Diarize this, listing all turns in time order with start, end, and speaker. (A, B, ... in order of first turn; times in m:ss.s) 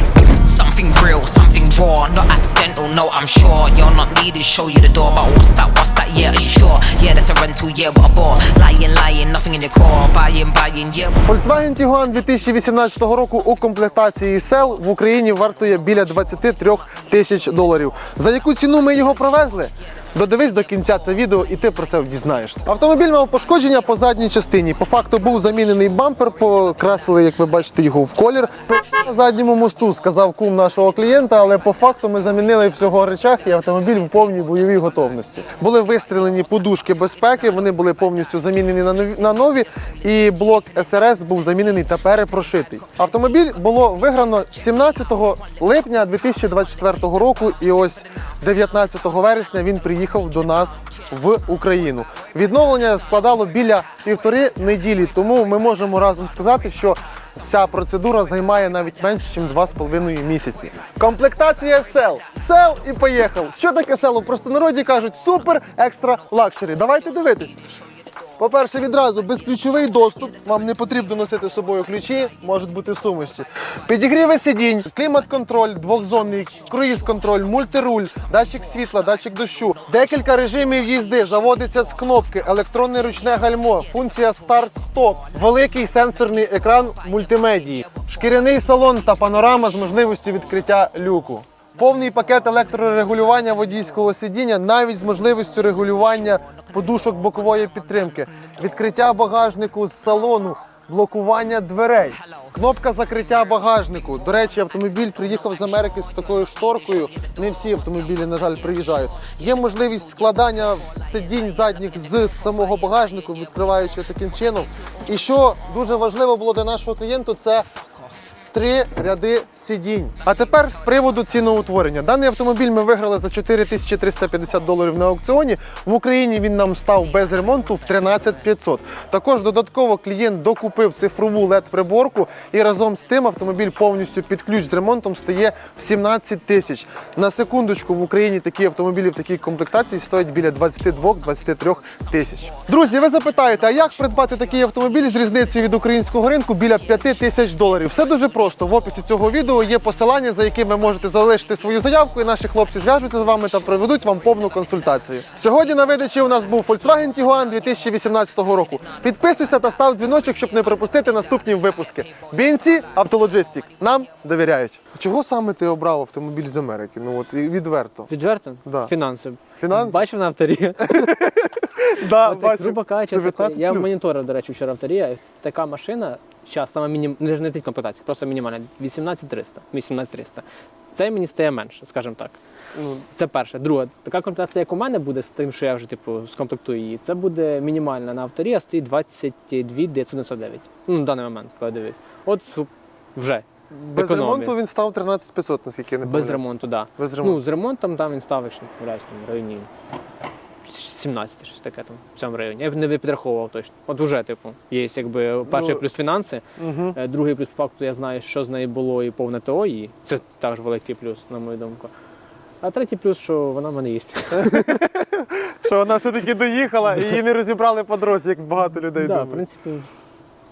0:00.4-0:11.2 A
0:11.2-1:07.6 B
1:08.4-1:57.7 B
1:58.5-2:48.1 B
2:48.1-2:51.2 C
2:48.7-2:48.9 B
2:49.6-2:50.0 B
2:50.9-2:54.0 B
2:52.2-3:02.4 C
3:02.8-3:03.0 B
3:03.1-3:14.5 C
3:13.7-3:17.4 B
3:16.0-3:19.7 C
3:20.6-3:31.9 C
3:25.5-3:25.8 B
3:26.6-3:27.0 B
3:32.6-3:34.8 C
3:34.3-3:39.4 B
3:38.7-3:39.9 C